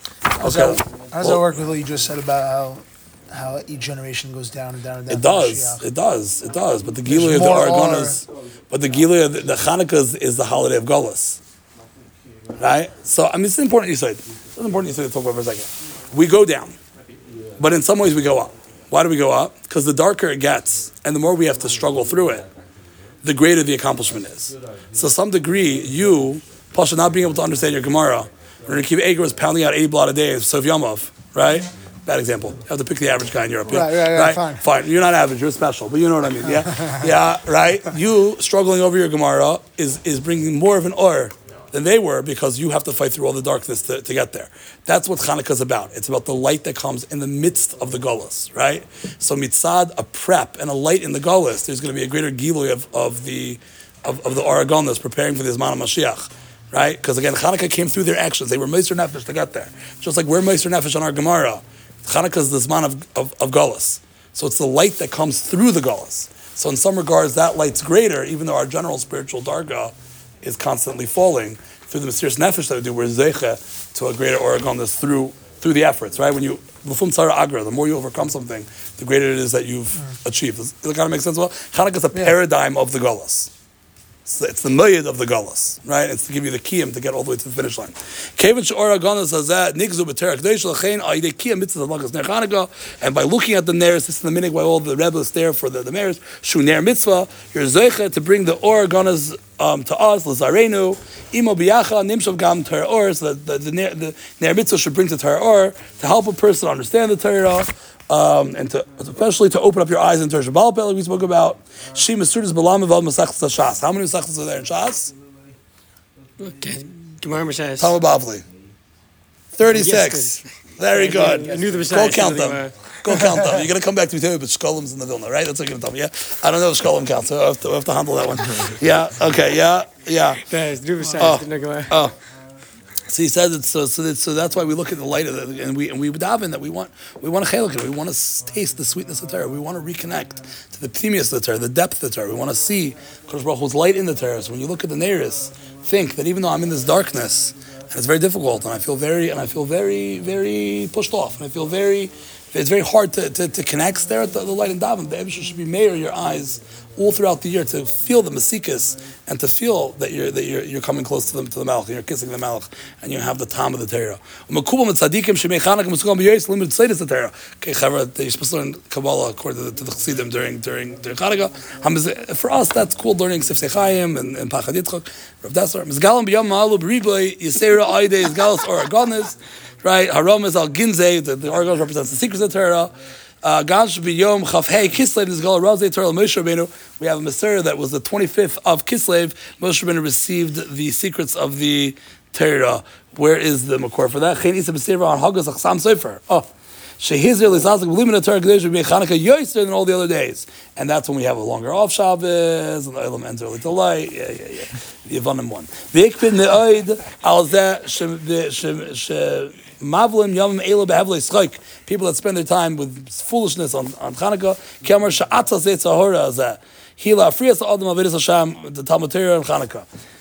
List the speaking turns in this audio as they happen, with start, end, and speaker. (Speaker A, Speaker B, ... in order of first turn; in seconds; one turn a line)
Speaker A: 0.3-1.4
Speaker B: 0.3-5.9
Speaker A: 5.1-11.4
Speaker B: 7.0-8.2
Speaker A: 12.6-16.8
Speaker A: 17.6-22.5
Speaker A: 23.2-83.5
Speaker B: 33.7-34.6
Speaker A: 84.2-115.1
Speaker C: 116.4-117.9
Speaker A: 117.8-118.4
Speaker A: 119.5-130.4
Speaker C: 119.7-122.7
Speaker C: 130.4-131.9
Speaker A: 131.2-132.1
Speaker A: 133.1-196.5
Speaker A: 197.0-219.8